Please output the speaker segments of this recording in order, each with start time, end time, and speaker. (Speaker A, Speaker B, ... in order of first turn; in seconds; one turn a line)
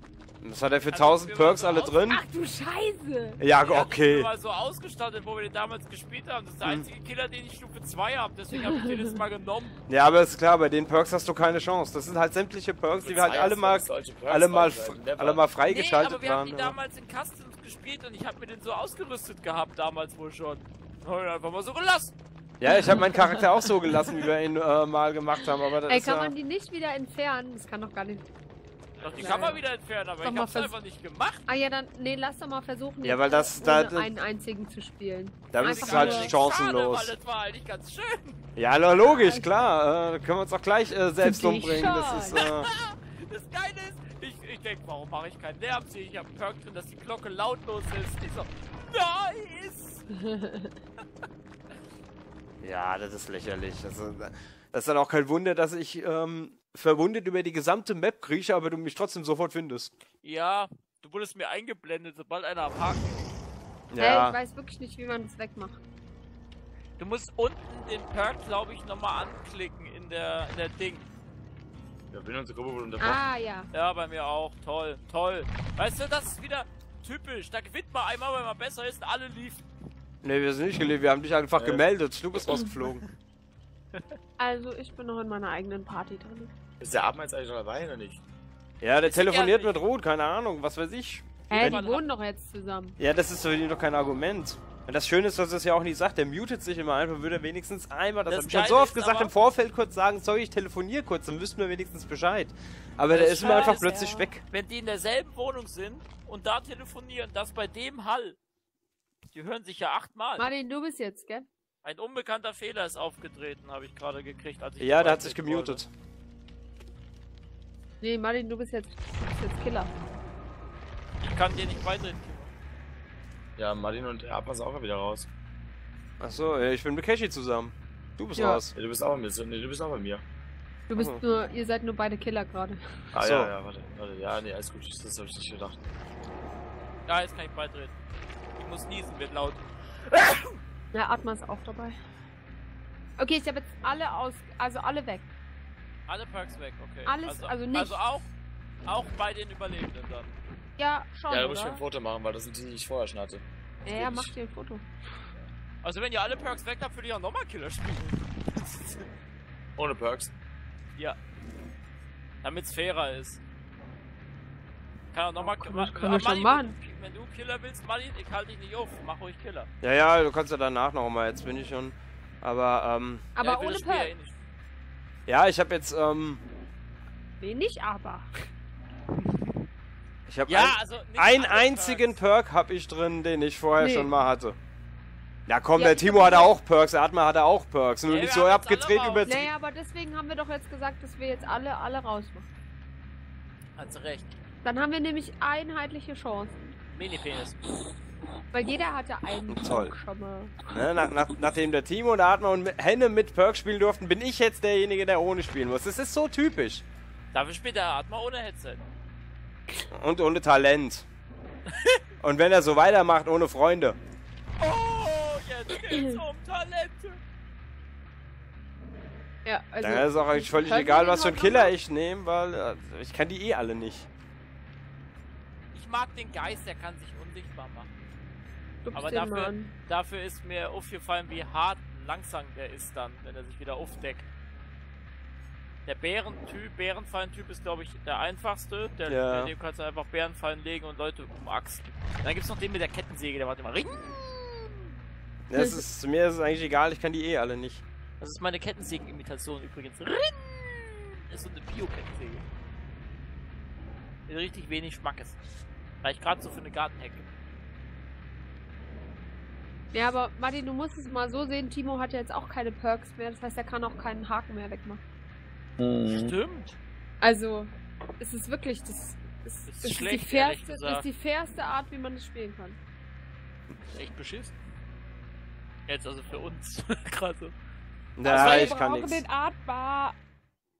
Speaker A: 0.4-2.2
Speaker B: 0.9-2.1
Speaker C: 2.0-3.4
Speaker A: 3.4-4.3
Speaker B: 3.6-9.8
Speaker A: 9.9-16.8
Speaker D: 13.0-15.4
Speaker B: 15.7-22.1
Speaker A: 22.6-26.3
Speaker C: 22.7-23.7
Speaker C: 25.9-28.2
Speaker B: 29.0-31.4
Speaker C: 29.1-29.6
Speaker C: 30.2-30.8
Speaker C: 31.4-36.3
Speaker A: 33.0-34.1
Speaker A: 35.5-37.1
Speaker B: 35.6-38.4
Speaker A: 38.5-42.7
Speaker C: 39.0-39.5
Speaker C: 41.2-42.5
Speaker B: 42.4-50.0
Speaker C: 50.1-50.7
Speaker A: 52.6-59.9
Speaker B: 60.2-63.1
Speaker A: 63.9-64.4
Speaker C: 64.0-65.8
Speaker B: 67.0-71.0
Speaker D: 72.1-73.2
Speaker C: 73.0-73.7
Speaker B: 73.7-79.6
Speaker A: 80.2-83.0
Speaker D: 81.5-81.8
Speaker C: 84.4-86.5
Speaker D: 86.8-88.2
Speaker A: 88.8-91.8
Speaker B: 89.0-89.8
Speaker B: 91.5-92.1
Speaker C: 91.5-93.0
Speaker A: 93.0-104.4
Speaker B: 98.3-99.3
Speaker B: 103.1-108.4
Speaker C: 103.4-104.3
Speaker B: 109.3-110.5
Speaker C: 110.4-111.5
Speaker B: 111.8-115.8
Speaker A: 114.8-115.9
Speaker C: 118.0-119.9
Speaker B: 121.2-122.5
Speaker D: 123.6-125.3
Speaker A: 126.2-128.7
Speaker C: 128.3-128.6
Speaker D: 128.7-130.2
Speaker C: 130.9-132.8
Speaker A: 130.9-131.2
Speaker D: 133.1-135.8
Speaker A: 133.2-133.5
Speaker B: 137.1-137.9
Speaker B: 138.6-140.3
Speaker C: 140.9-141.9
Speaker C: 143.2-145.3
Speaker B: 146.1-148.3
Speaker C: 147.0-148.0
Speaker B: 148.8-150.3
Speaker C: 150.8-151.8
Speaker D: 151.3-154.3
Speaker C: 153.8-154.8
Speaker B: 155.8-158.3
Speaker D: 159.8-160.3
Speaker B: 162.4-163.4
Speaker B: 165.1-169.7
Speaker C: 165.4-166.7
Speaker A: 169.8-173.2
Speaker C: 173.3-174.1
Speaker B: 173.4-174.4
Speaker A: 175.3-176.4
Speaker C: 177.4-178.3
Speaker A: 180.3-184.6
Speaker B: 180.5-182.2
Speaker C: 183.8-184.1
Speaker A: 185.5-189.5
Speaker C: 185.7-186.6
Speaker B: 188.1-189.3
Speaker C: 189.2-192.5
Speaker B: 193.8-194.3
Speaker C: 194.6-196.7
Speaker B: 196.9-197.6
Speaker C: 198.5-200.7
Speaker A: 199.5-199.9
Speaker A: 200.7-206.8
Speaker B: 207.3-208.8
Speaker A: 209.9-211.1
Speaker A: 212.2-214.0
Speaker B: 214.6-217.2
Speaker C: 219.4-221.7
Speaker A: 219.8-224.1
Speaker B: 225.7-227.9
Speaker C: 228.8-229.7
Speaker B: 228.9-234.3
Speaker B: 235.8-244.7
Speaker A: 239.1-239.5
Speaker A: 245.5-247.8
Speaker C: 245.5-245.8
Speaker B: 248.2-252.4
Speaker B: 254.3-255.4
Speaker B: 256.0-257.3
Speaker C: 259.9-265.0
Speaker D: 265.8-266.4
Speaker B: 266.1-266.8
Speaker C: 267.2-272.8
Speaker B: 269.7-271.0
Speaker B: 273.9-274.5
Speaker B: 275.9-277.5
Speaker A: 278.2-279.2
Speaker C: 278.2-280.1
Speaker B: 278.4-278.7